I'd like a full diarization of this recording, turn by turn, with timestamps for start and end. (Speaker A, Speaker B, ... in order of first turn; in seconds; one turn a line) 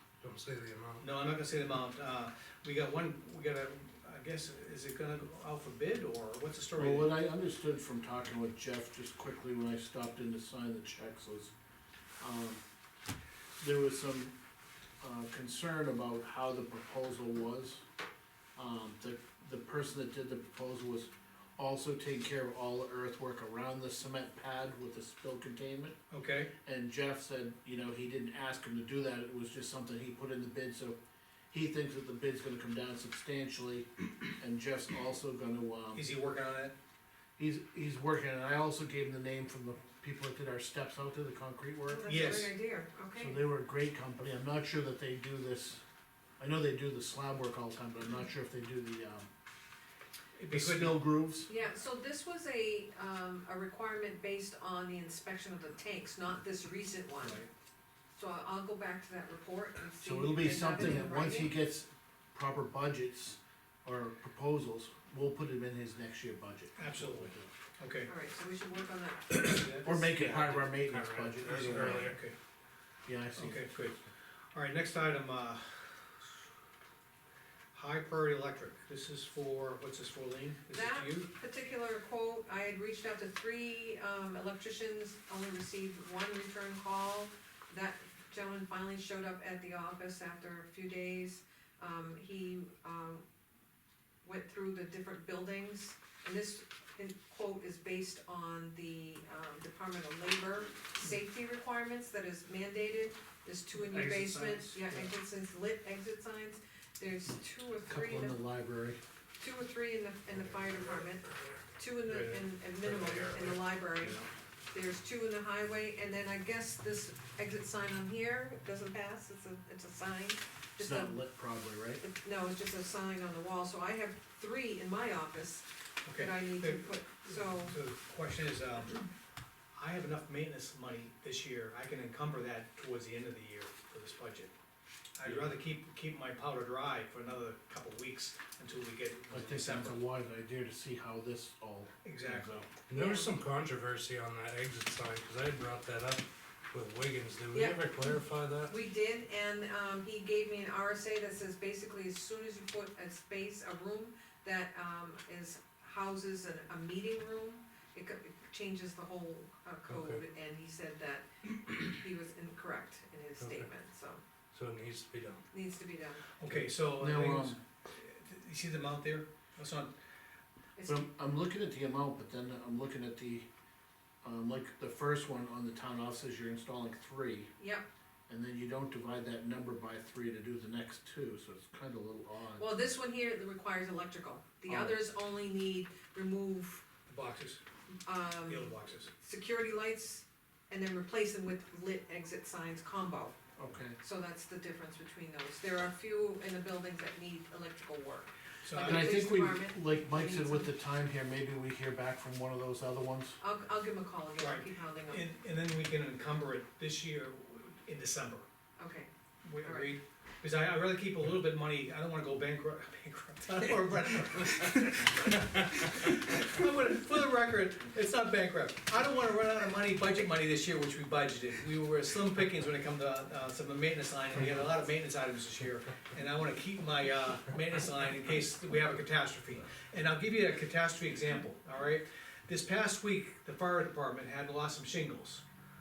Speaker A: 0.2-1.0
Speaker B: 1.0-7.1
Speaker C: 6.8-11.5
Speaker C: 12.2-12.6
Speaker C: 13.6-14.4
Speaker C: 15.0-17.8
Speaker C: 18.6-26.0
Speaker B: 26.1-26.5
Speaker C: 26.6-31.0
Speaker C: 31.5-36.1
Speaker B: 35.9-36.8
Speaker C: 37.4-42.4
Speaker D: 41.9-43.4
Speaker B: 42.1-42.5
Speaker C: 43.2-45.8
Speaker C: 46.4-49.3
Speaker B: 50.4-51.0
Speaker C: 50.5-51.5
Speaker D: 51.5-57.4
Speaker D: 58.1-61.5
Speaker C: 60.0-67.5
Speaker B: 66.8-68.1
Speaker D: 68.1-69.7
Speaker C: 69.3-72.1
Speaker B: 69.4-70.0
Speaker A: 70.1-72.2
Speaker B: 71.7-72.3
Speaker C: 73.1-74.0
Speaker B: 73.3-74.0
Speaker B: 74.5-76.0
Speaker B: 77.7-81.3
Speaker D: 80.7-93.2
Speaker D: 94.2-108.4
Speaker C: 103.9-104.3
Speaker C: 107.9-109.0
Speaker D: 109.4-114.2
Speaker B: 112.1-114.2
Speaker D: 114.7-121.2
Speaker C: 120.8-122.0
Speaker D: 122.0-127.8
Speaker B: 126.0-129.1
Speaker B: 129.8-134.5
Speaker B: 135.2-140.0
Speaker C: 139.3-142.7
Speaker B: 142.1-142.7
Speaker A: 142.9-148.8
Speaker D: 142.9-143.4
Speaker D: 147.5-164.2
Speaker A: 159.9-160.2
Speaker A: 163.4-163.7
Speaker A: 164.5-165.4
Speaker D: 165.5-166.3
Speaker B: 166.4-169.9
Speaker C: 167.0-167.6
Speaker D: 170.8-171.1
Speaker C: 170.9-173.5
Speaker C: 174.2-177.5
Speaker D: 177.6-177.9
Speaker C: 178.3-182.7
Speaker D: 182.6-186.9
Speaker C: 184.7-185.0
Speaker B: 187.1-187.6
Speaker D: 188.1-193.4
Speaker B: 188.5-189.1
Speaker C: 193.6-194.0
Speaker D: 194.0-200.7
Speaker B: 198.6-199.2
Speaker C: 198.8-203.4
Speaker D: 203.4-205.2
Speaker B: 204.4-208.4
Speaker D: 208.8-209.1
Speaker B: 209.4-235.4
Speaker D: 209.6-209.9